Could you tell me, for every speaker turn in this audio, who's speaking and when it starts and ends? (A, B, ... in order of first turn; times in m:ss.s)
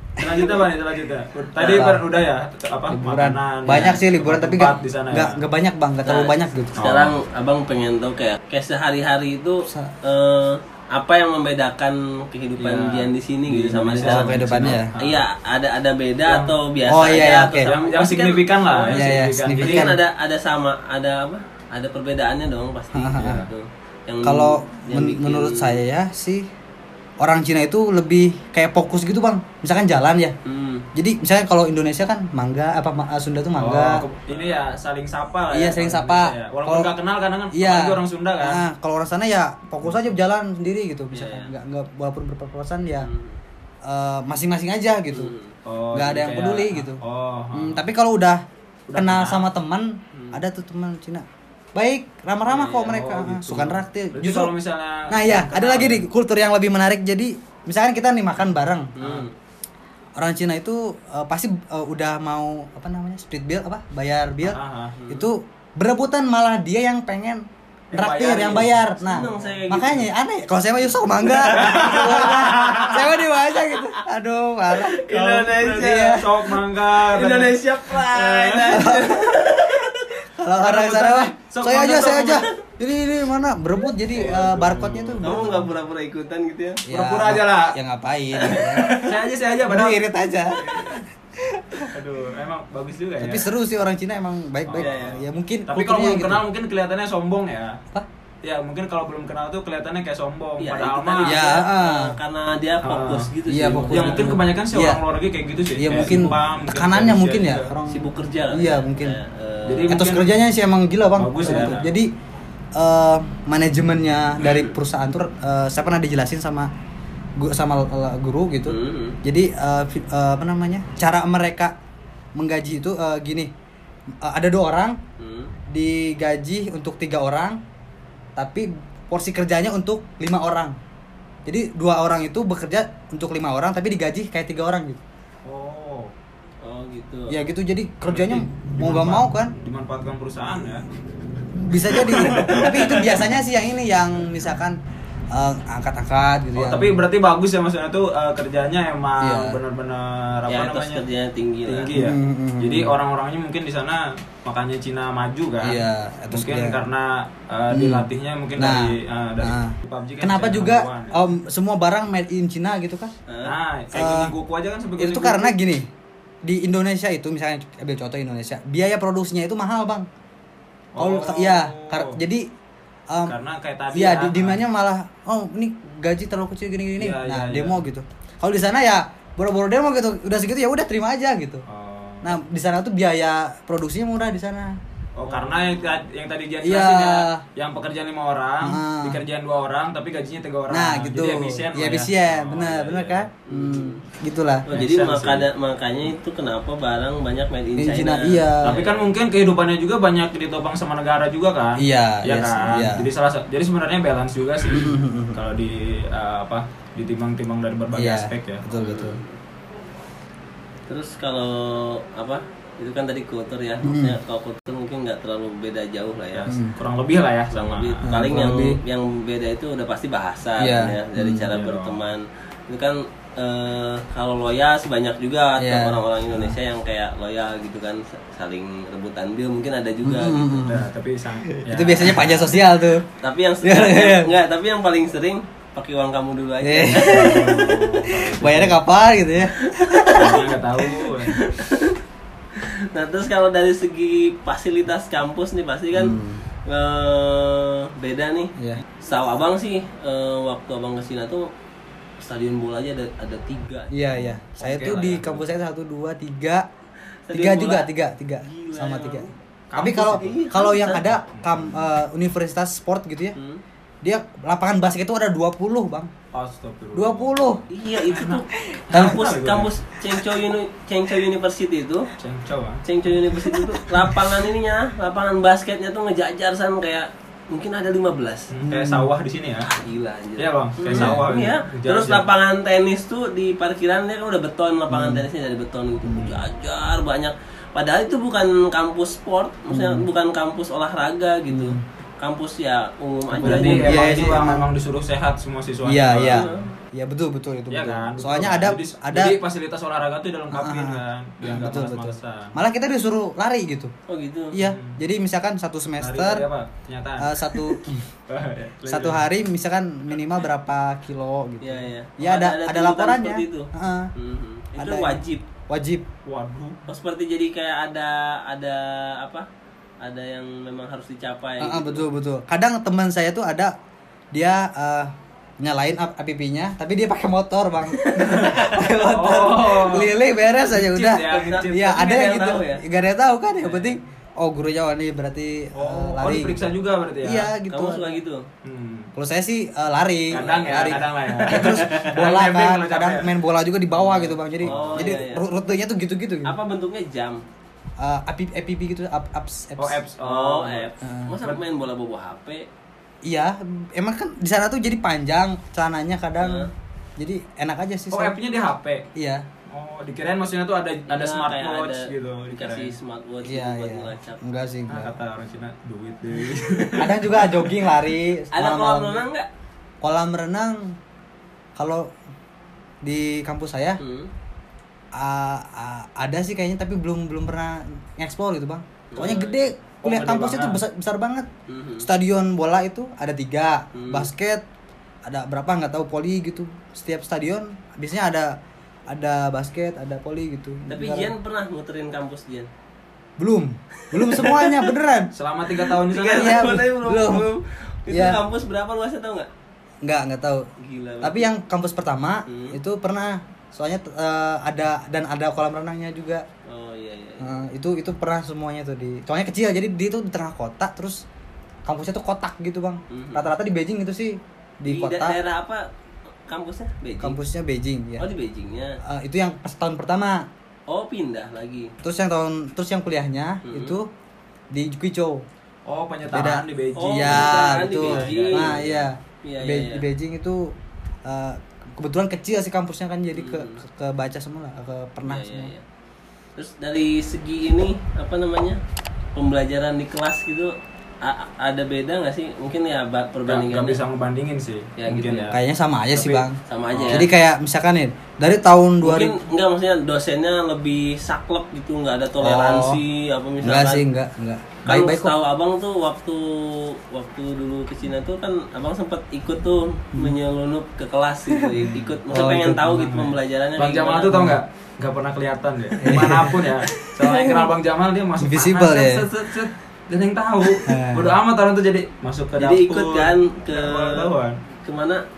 0:00.2-0:05.4 A
0:01.6-0:01.8 B
0:01.6-0:02.0 C
0:02.9-0:06.8 C
0:06.0-0:25.8 B
0:06.8-0:07.1 A
0:09.7-0:09.9 C
0:12.6-0:15.2 A
0:14.0-0:14.9 C
0:16.3-0:16.5 A
0:16.9-0:17.7 C
0:17.6-0:19.9 A
0:18.9-0:20.0 C
0:22.9-0:23.4 C
0:23.2-0:23.5 A
0:24.2-0:26.4 C
0:27.2-0:30.3 C
0:30.4-0:30.9 B
0:30.9-0:34.0 C
0:33.6-0:38.6 A
0:34.3-0:34.6 B
0:35.5-0:36.9 C
0:37.5-0:43.1 C
0:39.8-0:40.1 A
0:41.1-0:41.5 B
0:43.0-0:43.4 B
0:43.8-0:45.3 C
0:45.1-0:45.6 B
0:45.6-0:47.8 A
0:45.9-0:47.0 C
0:47.5-0:48.4 C
0:48.9-0:49.5 A
0:48.9-0:54.5 C
0:50.1-0:50.4 B
0:52.5-0:56.0 A
0:55.1-0:59.0 C
0:59.0-0:59.3 B
0:59.0-0:59.3 A
1:00.2-1:15.1 C
1:04.4-1:05.0 A
1:05.0-1:05.3 B
1:07.9-1:09.8 A
1:09.0-1:10.1 B
1:11.2-1:12.9 B
1:11.5-1:13.1 A
1:13.6-1:14.0 B
1:14.8-1:20.2 B
1:15.1-1:18.8 A
1:15.6-1:16.3 C
1:18.7-1:19.4 C
1:20.2-1:25.7 C
1:20.6-1:22.5 A
1:24.1-1:25.6 A
1:25.2-1:26.8 B
1:26.9-1:29.1 C
1:26.9-1:27.8 A
1:28.4-1:29.0 B
1:28.9-1:30.0 A
1:29.6-1:31.9 C
1:30.6-1:31.0 A
1:31.9-1:33.5 A
1:33.2-1:36.4 C
1:34.7-1:37.8 A
1:34.8-1:35.2 B
1:38.4-1:41.4 A
1:40.6-1:44.4 B
1:41.2-1:42.1 C
1:42.8-1:43.3 A
1:43.5-1:45.0 C
1:43.8-1:47.7 A
1:45.8-1:49.2 C
1:47.9-1:50.0 B
1:49.6-1:50.3 A
1:49.9-1:52.1 C
1:51.2-1:51.8 A
1:51.4-1:51.8 B
1:52.8-1:56.7 C
1:57.4-2:01.7 C
1:58.7-1:59.2 B
2:02.4-2:03.5 C
2:04.2-2:05.0 C
2:05.2-2:05.5 B
2:05.7-2:07.6 C
2:08.4-2:10.8 C
2:11.4-2:15.0 C
2:15.4-2:16.1 A
2:16.6-2:17.4 B
2:17.3-2:19.5 C
2:18.1-2:20.8 A
2:21.5-2:24.8 C
2:22.0-2:23.2 A
2:25.3-2:27.0 C
2:26.6-2:31.0 A
2:29.2-2:29.6 C
2:30.5-2:31.9 B
2:31.7-2:41.2 A
2:31.9-2:32.9 C
2:35.6-2:36.8 C
2:37.7-2:43.1 C
2:43.3-2:43.5 B
2:43.4-2:45.5 A
2:43.9-2:44.3 C
2:45.0-2:45.9 C
2:46.4-2:50.1 C
2:50.9-2:52.2 A
2:51.0-2:52.5 C
2:53.1-2:53.4 C
2:53.2-2:54.6 A
2:53.9-3:01.6 C
2:57.0-2:57.8 A
3:01.7-3:02.4 A
3:02.2-3:04.8 C
3:05.2-3:13.3 A
3:06.6-3:07.4 C
3:08.6-3:09.2 C
3:10.7-3:14.7 C
3:13.5-3:14.0 B
3:14.7-3:19.1 B
3:14.7-3:15.5 A
3:17.8-3:18.8 C
3:18.6-3:28.6 A
3:21.8-3:23.1 C
3:24.7-3:25.4 C
3:27.9-3:29.2 C
3:28.7-3:29.3 B
3:30.9-3:36.5 B
3:33.8-3:34.2 C
3:36.3-3:38.4 A
3:36.5-3:36.7 C
3:37.5-3:50.5 B
3:38.0-3:38.8 C
3:40.6-3:41.5 C
3:41.5-3:42.0 A
3:45.6-3:46.5 C
3:50.0-3:50.9 C
3:50.6-3:52.7 A
3:51.5-3:53.0 C
3:53.2-3:57.5 B
3:53.6-3:54.3 C
3:56.6-4:00.4 C
3:57.0-3:58.8 A
3:59.6-4:02.0 B
4:00.1-4:01.4 A
4:02.6-4:11.5 B
4:05.9-4:06.4 C
4:08.6-4:08.8 C
4:12.2-4:13.9 B
4:13.9-4:16.6 C
4:14.6-4:15.5 A
4:17.3-4:17.9 B
4:17.3-4:23.4 C
4:18.4-4:19.3 B
4:19.7-4:21.9 A
4:20.1-4:21.0 B
4:23.3-4:23.6 B
4:24.0-4:26.1 C
4:26.3-4:29.7 A
4:26.9-4:27.6 C
4:27.7-4:32.1 B
4:28.7-4:29.2 C
4:32.2-4:32.8 A
4:32.8-4:38.5 B
4:33.4-4:34.0 C
4:38.5-4:39.7 A
4:38.6-4:39.1 C
4:39.8-4:54.4 B
4:40.4-4:42.2 A
4:40.9-4:41.2 C
4:44.9-4:45.2 C
4:46.0-4:46.3 C
4:49.7-4:50.1 C
4:51.5-4:51.8 C
4:53.3-4:54.7 C
4:53.4-4:56.6 A
4:55.8-4:59.4 C
4:56.3-4:56.6 B
4:57.7-5:02.5 A
5:00.5-5:03.9 C
5:04.1-5:04.6 B
5:04.5-5:06.5 C
5:04.6-5:05.0 A
5:06.0-5:07.8 A
5:07.2-5:08.1 C
5:08.3-5:09.2 A
5:08.9-5:14.1 C
5:11.6-5:15.4 B
5:14.8-5:16.0 C
5:16.2-5:16.8 A
5:16.9-5:19.5 B
5:20.0-5:22.1 B
5:21.6-5:23.7 C
5:24.3-5:36.7 C
5:27.9-5:28.8 B
5:28.2-5:32.2 A
5:31.2-5:32.8 B
5:33.6-5:34.0 A
5:35.8-5:37.5 A
5:37.2-5:38.2 C
5:37.7-5:38.4 B
5:38.6-5:39.1 A
5:39.1-5:46.5 C
5:40.3-5:43.3 A
5:40.4-5:40.9 B
5:41.4-5:42.1 B
5:43.9-5:45.2 A
5:44.6-5:45.4 B
5:46.4-5:47.4 B
5:48.0-5:50.0 C
5:49.8-5:50.9 A
5:50.2-5:52.7 B
5:51.0-5:51.3 C
5:53.2-5:58.4 C
5:56.4-5:56.7 B
5:58.1-5:59.1 A
5:59.1-5:59.4 C
5:59.7-6:02.9 A
6:01.1-6:04.4 B
6:03.4-6:05.2 C
6:04.9-6:07.8 A
6:06.6-6:06.9 B
6:07.0-6:09.2 C
6:08.5-6:09.5 B
6:10.0-6:11.0 C
6:11.8-6:12.1 C
6:13.0-6:14.0 C
6:14.0-6:14.3 B
6:15.1-6:21.5 C
6:19.1-6:19.6 B
6:20.0-6:20.8 A
6:21.7-6:22.1 B
6:22.0-6:24.6 C
6:23.9-6:24.3 B
6:25.2-6:28.6 C
6:29.1-6:31.3 C
6:30.9-6:32.7 B
6:33.4-6:35.3 C
6:34.0-6:34.9 B
6:35.3-6:36.8 A
6:35.8-6:39.5 B
6:36.3-6:37.5 C
6:38.1-6:38.4 C
6:40.0-6:40.7 C
6:40.8-6:41.5 B
6:41.2-6:46.4 C
6:42.4-6:42.8 B
6:46.7-6:47.6 B
6:47.4-6:51.2 C
6:51.8-6:55.4 C
6:53.1-6:53.5 B
6:54.8-6:55.9 B
6:56.5-6:57.4 B
6:57.2-6:58.3 C
6:58.2-6:59.0 B
6:59.0-7:00.5 C
7:00.9-7:01.9 B
7:02.0-7:04.1 C
7:03.6-7:04.0 B
7:04.7-7:05.4 C
7:05.8-7:09.0 A
7:06.3-7:10.7 C
7:06.9-7:08.9 B
7:09.4-7:10.0 B
7:11.2-7:15.7 C
7:13.3-7:13.8 B
7:15.2-7:15.8 B
7:16.6-7:18.8 B
7:19.3-7:24.0 B
7:23.5-7:25.6 A
7:25.0-7:25.5 B
7:25.5-7:26.6 C
7:26.1-7:27.2 A
7:26.7-7:27.3 B
7:27.1-7:29.4 C
7:29.0-7:34.0 B
7:32.4-7:33.0 C
7:33.6-7:35.3 C
7:34.8-7:44.5 B
7:41.5-7:42.8 C
7:42.4-7:54.6 A
7:44.3-7:44.6 C
7:46.0-7:47.7 C
7:48.4-7:49.3 C
7:50.8-7:51.4 C
7:52.6-7:55.2 B